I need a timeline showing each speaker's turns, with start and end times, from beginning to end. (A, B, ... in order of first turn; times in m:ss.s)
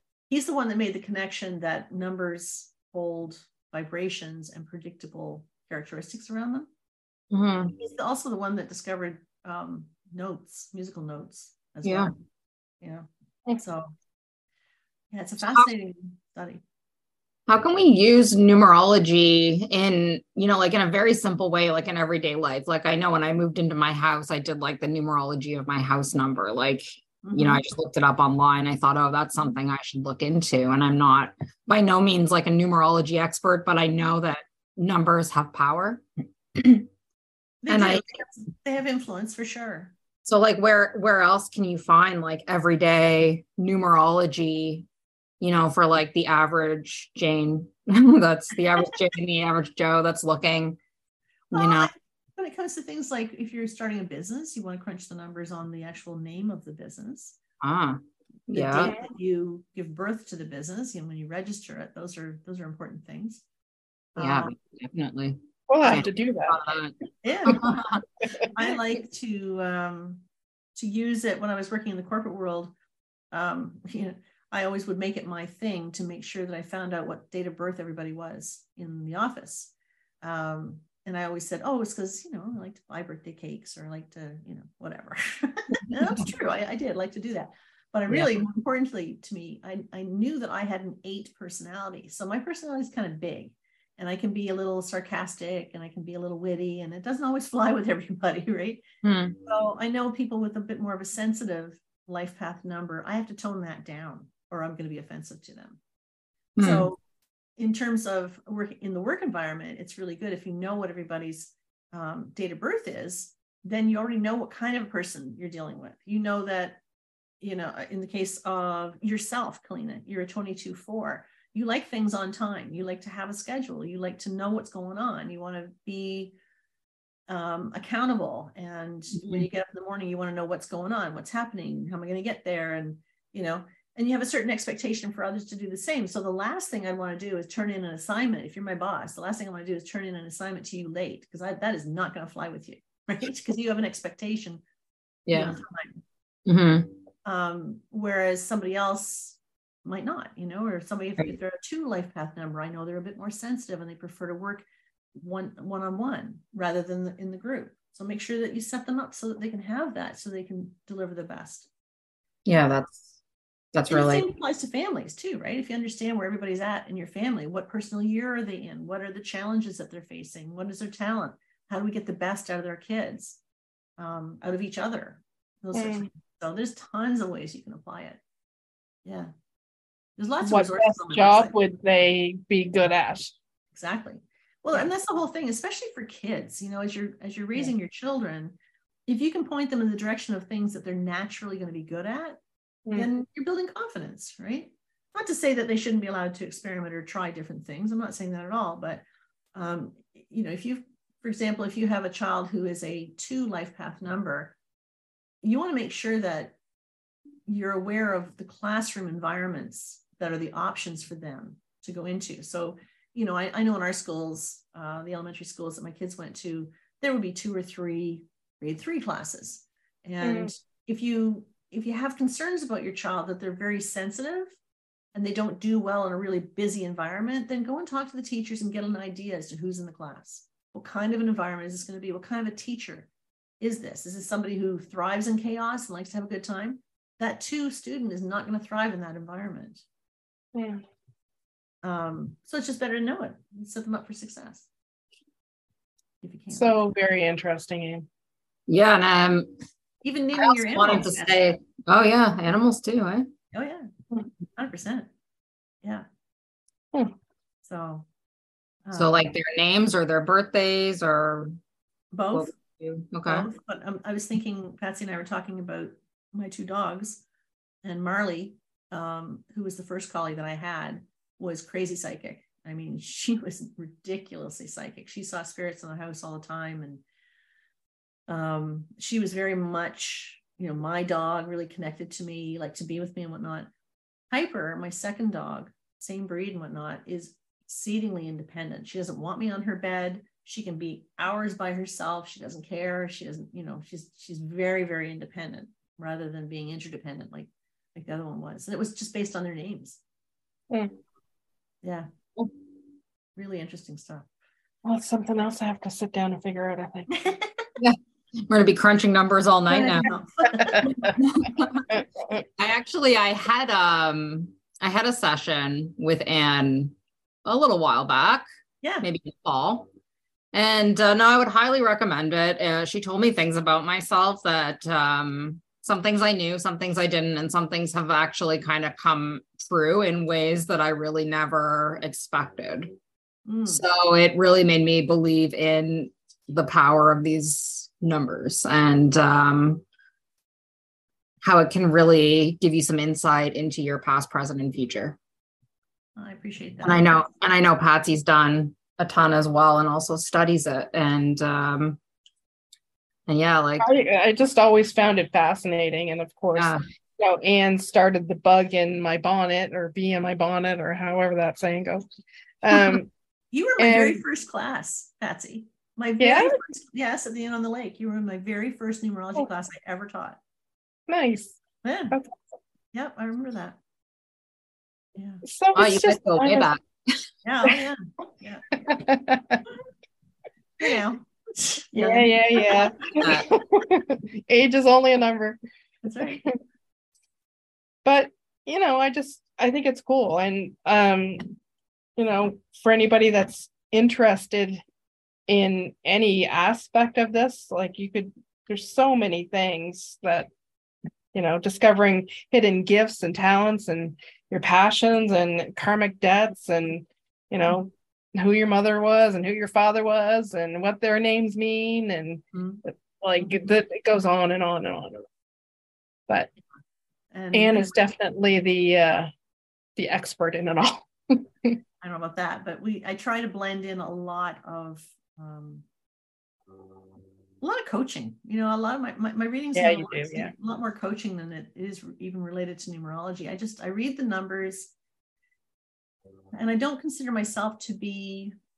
0:00.3-0:06.7 A
0:07.3-0:07.7 B
0:07.8-0:12.1 A
0:11.8-0:12.1 B
0:12.8-0:13.9 A
0:15.1-0:16.6 A
0:17.5-0:36.0 B
0:27.2-0:27.6 A
0:36.5-0:36.9 B
0:37.6-0:39.9 A
0:37.7-0:38.2 B
0:40.2-0:44.8 B
0:45.4-0:50.8 B
0:51.5-0:51.9 B
0:51.5-0:57.4 A
0:57.6-0:58.9 B
0:58.5-1:03.4 A
1:04.1-1:04.5 A
1:04.2-1:08.0 B
1:05.7-1:06.6 C
1:07.2-1:07.8 A
1:08.5-1:10.2 A
1:10.8-1:12.7 A
1:13.3-1:38.8 A
1:28.1-1:28.3 B
1:39.0-1:39.4 B
1:39.4-1:45.8 A
1:46.6-1:46.9 B
1:46.6-1:47.0 A
1:47.6-1:56.8 A
1:57.4-2:06.3 A
2:07.3-2:24.6 A
2:09.2-2:09.5 B
2:25.3-2:25.5 B
2:25.3-2:26.0 A
2:26.4-2:26.9 B
2:27.2-2:34.6 A
2:35.2-2:41.7 A
2:42.4-2:43.1 B
2:43.7-2:44.2 B
2:43.9-2:53.4 A
2:54.0-2:58.2 A
2:55.7-2:56.1 C
2:59.0-2:59.3 A
3:00.2-3:01.5 A
3:00.4-3:03.3 C
3:03.7-3:08.5 A
3:09.1-3:12.4 A
3:12.9-3:19.0 A
3:19.5-3:24.5 A
3:25.4-3:26.5 A
3:27.5-3:44.6 A
3:40.2-3:40.5 C
3:45.1-3:53.1 A
3:53.6-3:59.8 A
4:00.5-4:00.8 C
4:01.8-4:04.7 A
4:06.2-4:06.8 A
4:06.5-4:08.1 C
4:08.7-4:09.5 B
4:10.0-4:11.4 A
4:10.4-4:13.3 B
4:13.5-4:13.9 A
4:14.6-4:15.1 A
4:17.6-4:18.0 A
4:18.8-4:19.3 A
4:19.0-4:21.5 B
4:22.1-4:22.5 A
4:22.3-4:23.5 B
4:23.2-4:27.2 A
4:27.8-4:37.0 A
4:38.3-4:43.7 A
4:44.3-5:00.0 A
5:00.7-5:01.0 C
5:01.8-5:02.1 A
5:03.4-5:04.3 A
5:04.8-5:07.1 C
5:07.1-5:07.6 A
5:07.8-5:10.1 B
5:09.7-5:11.1 A
5:10.6-5:11.1 C
5:11.0-5:11.8 B
5:11.9-5:12.4 C
5:12.6-5:16.9 B
5:17.4-5:18.4 B
5:19.0-5:19.9 B
5:20.5-5:32.9 B
5:33.4-5:33.8 A
5:33.7-5:39.8 B
5:41.4-5:45.2 B
5:46.2-5:47.2 A
5:46.8-5:52.0 B
5:53.3-5:53.9 B
5:53.8-6:02.0 C
5:56.6-5:56.8 B
6:02.6-6:03.1 C
6:03.5-6:10.4 A
6:03.8-6:04.2 C
6:06.2-6:06.6 C
6:11.1-6:11.6 C
6:11.8-6:12.2 A
6:12.9-6:13.8 A
6:15.2-6:15.4 A
6:15.4-6:16.7 C
6:15.7-6:17.2 B
6:17.4-6:18.7 A
6:18.8-6:19.6 C
6:20.8-6:23.4 A
6:21.9-6:25.6 C
6:23.2-6:23.5 B
6:26.0-6:26.5 A
6:28.0-6:31.5 C
6:32.2-6:34.8 C
6:35.5-6:40.5 C
6:41.3-6:55.3 C
6:52.5-6:52.8 A
6:57.3-6:58.0 A
6:57.5-6:59.3 C
7:00.0-7:01.8 C
7:02.0-7:05.8 A
7:07.6-7:14.9 A
7:09.7-7:10.5 C
7:16.5-7:18.5 A